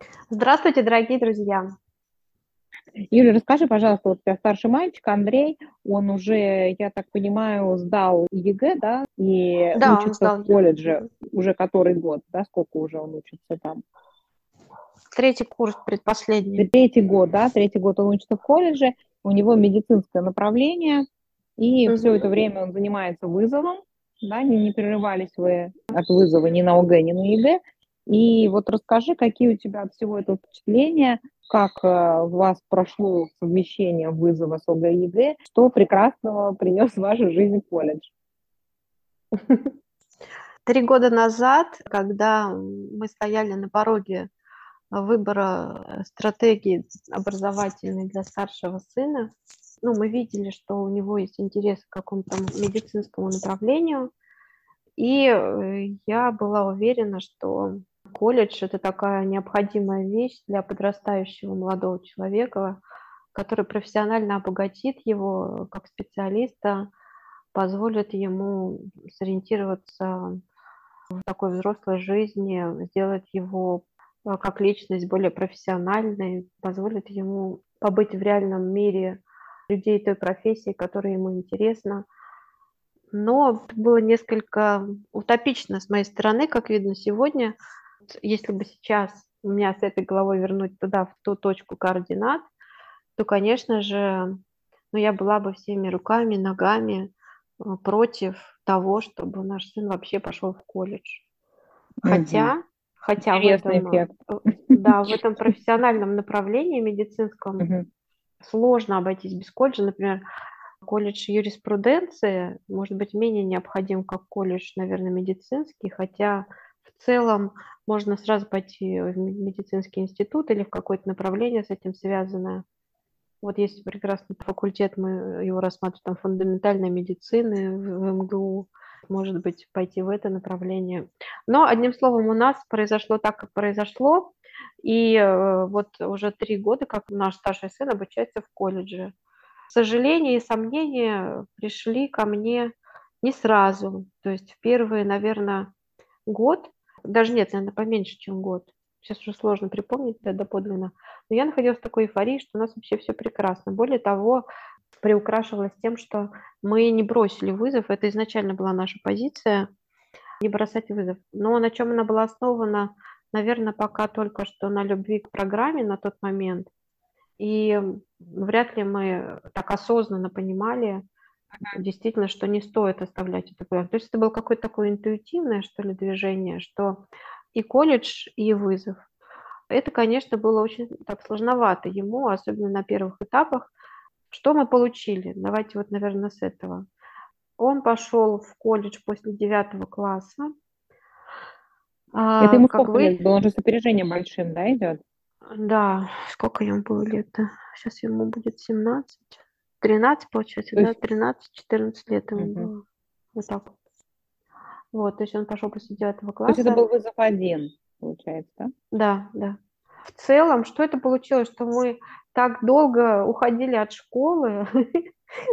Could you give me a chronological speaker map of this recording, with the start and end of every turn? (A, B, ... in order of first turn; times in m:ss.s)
0:00.3-0:01.7 A
0:03.1-0:13.8 B
0:09.8-0:10.6 A
0:15.2-0:16.7 A
0:16.6-0:21.0 B
0:21.6-0:38.1 B
0:21.9-0:22.2 A
0:39.4-0:39.7 A
0:40.7-0:44.3 A
0:44.9-0:49.3 A
0:49.8-0:54.1 A
0:55.0-1:02.8 A
1:03.3-1:06.9 A
1:07.5-1:10.4 A
1:11.2-1:22.1 A
1:23.1-1:27.6 A
1:28.2-1:32.4 A
1:33.2-1:34.4 A
1:34.9-1:41.2 A
1:42.0-1:42.5 B
1:42.1-1:47.7 A
1:43.2-1:44.1 B
1:47.6-1:47.9 B
1:48.4-1:50.2 A
1:50.8-2:02.6 A
2:03.4-2:19.1 A
2:19.7-2:25.7 A
2:26.3-2:34.4 A
2:35.0-2:39.7 A
2:40.4-2:46.7 A
2:47.4-2:51.0 A
2:51.7-2:59.0 A
2:59.7-3:03.7 A
3:04.3-3:06.8 A
3:07.6-3:10.5 A
3:12.2-3:13.2 A
3:12.4-3:15.0 B
3:15.6-3:19.3 A
3:19.8-3:22.8 A
3:22.4-3:22.7 B
3:23.4-3:23.7 A
3:24.9-3:26.8 A
3:26.5-3:28.7 B
3:28.9-3:29.6 A
3:30.1-3:35.0 A